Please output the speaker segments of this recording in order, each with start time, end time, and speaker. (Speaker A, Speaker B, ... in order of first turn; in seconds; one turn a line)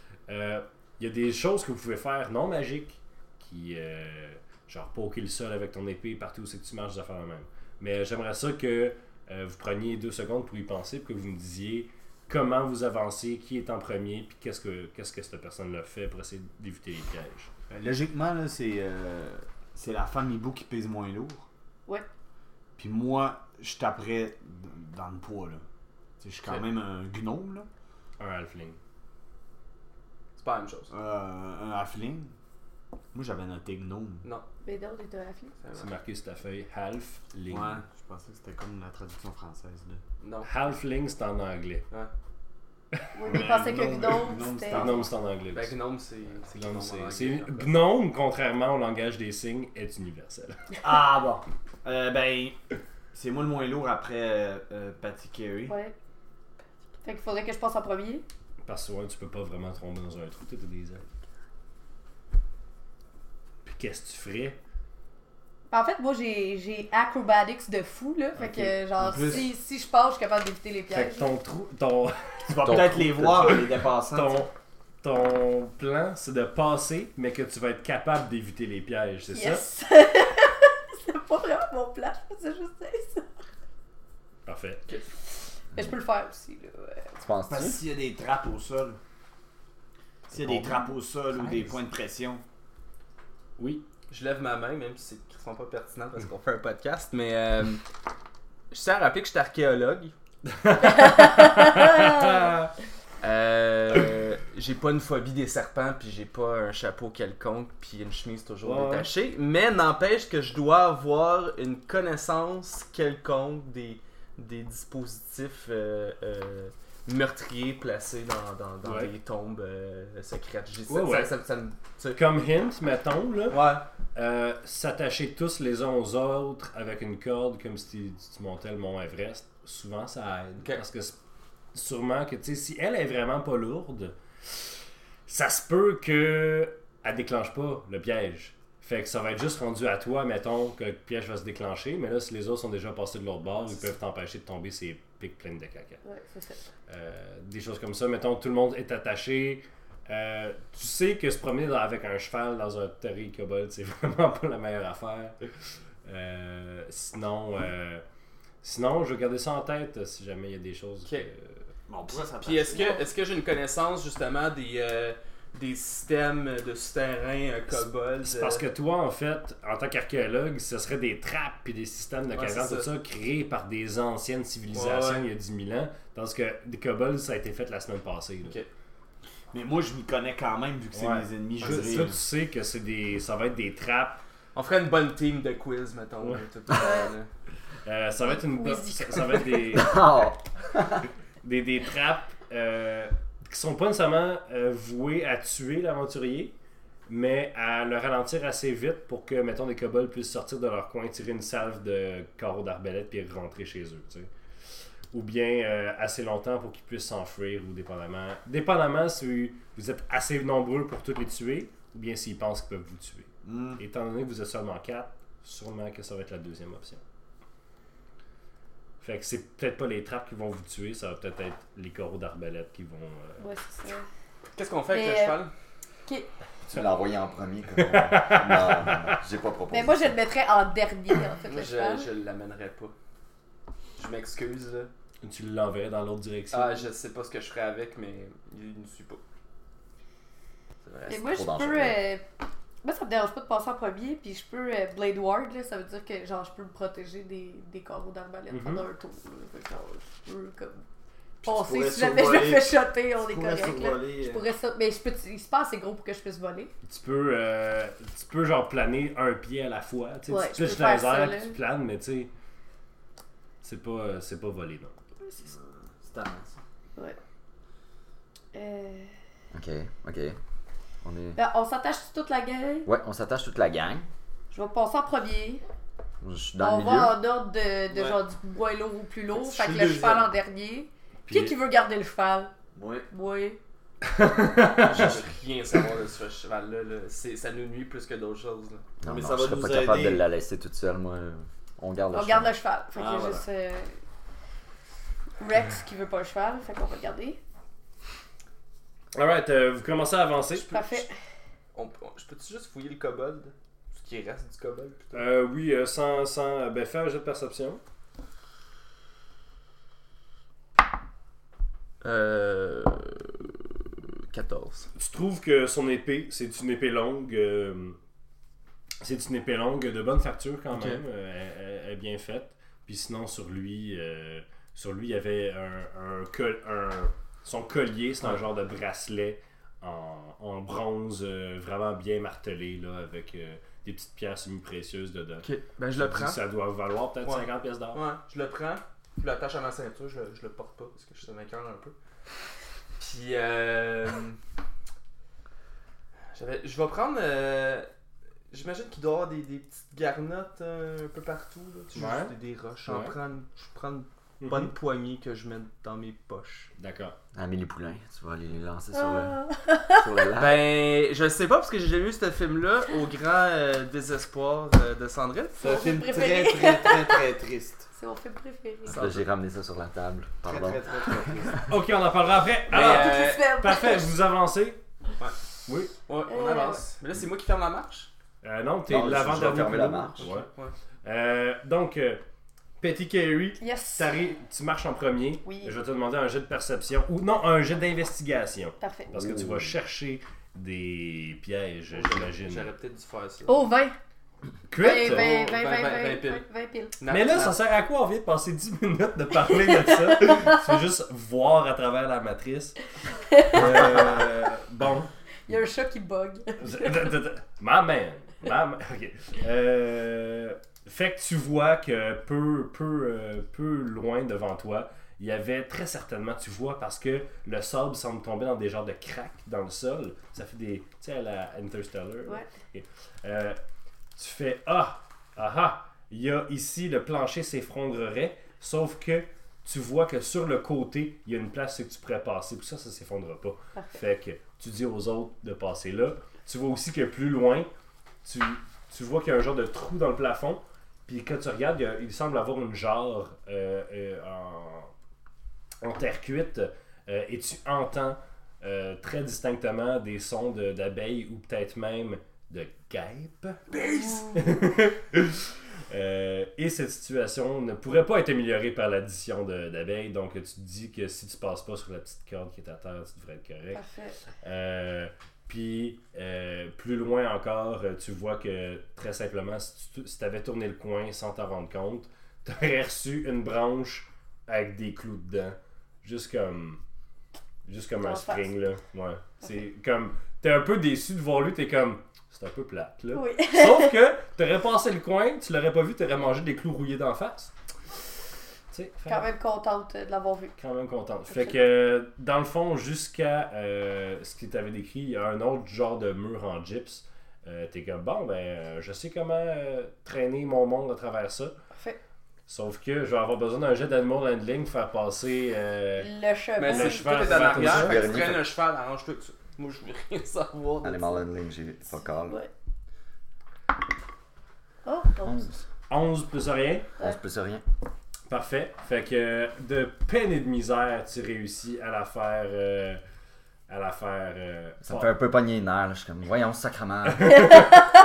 Speaker A: 0.3-17.5
Speaker B: 17.7-21.4
Speaker B: 22.8-25.6
Speaker B: 26.2-27.7
Speaker A: 28.2-28.8
Speaker C: 30.4-30.9
Speaker B: 30.9-32.3
Speaker B: 33.1-34.3
Speaker D: 34.6-35.5
Speaker C: 35.6-35.9
Speaker A: 35.7-37.8
Speaker B: 37.5-40.0
Speaker C: 40.2-40.5
Speaker A: 40.4-41.8
Speaker D: 43.1-45.1
Speaker B: 43.2-45.1
Speaker A: 44.7-45.8
Speaker C: 45.5-47.8
Speaker A: 46.5-50.6
Speaker B: 50.8-52.6
Speaker B: 53.1-55.7
Speaker D: 55.6-55.9
Speaker D: 57.0-58.2
Speaker A: 58.6-61.1
Speaker A: 63.6-64.6
Speaker D: 65.7-71.3
Speaker A: 68.4-68.7
Speaker B: 69.0-69.5
Speaker A: 70.9-79.6
Speaker B: 72.5-74.4
Speaker E: 72.6-73.5
Speaker D: 79.3-83.3
Speaker A: 84.5-84.8
Speaker D: 85.7-87.1
Speaker E: 87.2-87.8
Speaker B: 87.5-89.0
Speaker B: 90.3-92.4
Speaker A: 93.6-93.8
Speaker C: 94.1-97.8
Speaker C: 98.7-100.1
Speaker A: 100.5-102.7
Speaker D: 101.2-102.2
Speaker C: 103.2-122.2
Speaker A: 108.6-109.1
Speaker A: 118.8-119.1
Speaker A: 120.9-121.3
Speaker A: 122.1-131.2
Speaker C: 123.5-123.8
Speaker A: 131.7-134.1
Speaker A: 135.3-146.0
Speaker D: 146.0-146.6
Speaker A: 146.9-155.3
Speaker A: 156.0-158.0
Speaker A: 158.6-161.6
Speaker B: 161.9-163.0
Speaker C: 162.3-168.6
Speaker D: 162.7-163.1
Speaker A: 168.2-178.6
Speaker C: 172.3-172.9
Speaker C: 174.7-175.3
Speaker C: 178.4-178.7
Speaker B: 179.5-182.2
Speaker A: 180.9-184.2
Speaker C: 181.6-182.1
Speaker C: 184.5-187.3
Speaker D: 186.8-187.1
Speaker A: 187.8-190.0
Speaker D: 188.2-189.7
Speaker E: 189.7-191.1
Speaker A: 191.4-196.5
Speaker A: 197.1-204.3
Speaker A: 205.1-217.0
Speaker B: 213.4-213.8
Speaker A: 219.0-223.4
Speaker D: 223.4-224.1
Speaker C: 224.6-225.5
Speaker D: 224.9-225.4
Speaker E: 226.7-230.1
Speaker A: 227.8-229.2
Speaker D: 229.7-232.1
Speaker C: 231.4-232.9
Speaker C: 234.0-234.9
Speaker A: 235.2-236.9
Speaker C: 236.5-239.2
Speaker E: 240.8-242.0
Speaker D: 241.1-242.2
Speaker D: 242.8-250.8
Speaker A: 248.5-248.8
Speaker B: 251.4-254.4
Speaker D: 251.4-256.7
Speaker A: 256.8-262.3
Speaker D: 260.3-261.6
Speaker A: 263.6-264.9
Speaker B: 265.4-266.6
Speaker D: 268.5-269.1
Speaker E: 269.5-270.4
Speaker E: 271.0-271.4
Speaker D: 271.3-272.9
Speaker E: 272.9-274.1
Speaker D: 274.5-275.6
Speaker E: 276.2-277.1
Speaker D: 276.6-282.5
Speaker C: 277.9-278.2
Speaker B: 279.3-280.3
Speaker B: 282.8-283.0
Speaker D: 283.1-283.6
Speaker A: 284.1-285.0
Speaker C: 284.8-288.9
Speaker E: 289.0-292.5
Speaker B: 289.1-290.2
Speaker D: 292.1-294.0
Speaker C: 293.0-293.4
Speaker D: 295.4-297.4
Speaker A: 299.1-301.0
Speaker D: 300.7-301.1
Speaker C: 301.7-305.2
Speaker A: 305.1-307.8
Speaker C: 312.0-314.9
Speaker A: 315.0-318.0
Speaker A: 319.0-338.0
Speaker C: 320.7-321.0
Speaker C: 335.4-336.4
Speaker C: 337.2-341.9
Speaker C: 343.0-344.4
Speaker C: 346.3-347.9
Speaker C: 348.5-356.7
Speaker A: 351.9-352.3
Speaker A: 352.8-353.1
Speaker A: 354.4-354.7
Speaker A: 356.8-357.1
Speaker E: 357.3-360.6
Speaker D: 358.9-360.0
Speaker C: 360.3-365.8
Speaker D: 365.6-367.2
Speaker B: 365.6-367.9
Speaker D: 367.9-369.0
Speaker E: 368.9-371.5
Speaker C: 368.9-369.2
Speaker B: 370.4-371.6
Speaker A: 371.7-374.8
Speaker C: 372.7-373.5
Speaker D: 372.7-374.2
Speaker A: 375.6-375.9
Speaker C: 376.0-378.1
Speaker D: 376.3-376.8
Speaker A: 378.4-380.5
Speaker E: 378.9-380.3
Speaker C: 380.2-380.7
Speaker A: 381.0-382.2
Speaker A: 382.8-392.7
Speaker D: 383.6-384.1
Speaker D: 385.4-385.7
Speaker D: 388.8-389.1
Speaker E: 389.2-389.6
Speaker C: 391.9-393.6
Speaker D: 393.4-394.0
Speaker A: 394.7-395.4
Speaker D: 394.8-396.9
Speaker C: 394.9-396.4
Speaker C: 397.0-397.6
Speaker A: 397.1-402.8
Speaker D: 399.5-400.6
Speaker D: 403.3-403.8
Speaker A: 403.4-405.1
Speaker D: 405.5-407.1
Speaker A: 406.6-423.6
Speaker A: 424.1-437.7
Speaker A: 438.2-444.9
Speaker A: 445.8-463.8
Speaker D: 453.8-454.5
Speaker D: 463.7-464.2
Speaker A: 464.4-476.8
Speaker A: 477.6-487.5
Speaker D: 478.0-478.5
Speaker D: 483.1-483.9
Speaker A: 488.7-489.3
Speaker D: 489.1-490.5
Speaker A: 490.6-501.5
Speaker D: 491.3-491.6
Speaker A: 502.5-506.1
Speaker D: 505.9-507.4
Speaker C: 506.6-511.1
Speaker A: 506.6-508.1
Speaker E: 507.4-508.5
Speaker E: 510.8-512.4
Speaker D: 514.8-515.5
Speaker E: 515.2-515.5
Speaker A: 515.9-516.9
Speaker E: 517.0-517.6
Speaker A: 518.3-523.0
Speaker A: 523.7-525.1
Speaker E: 524.8-527.5
Speaker A: 527.1-527.9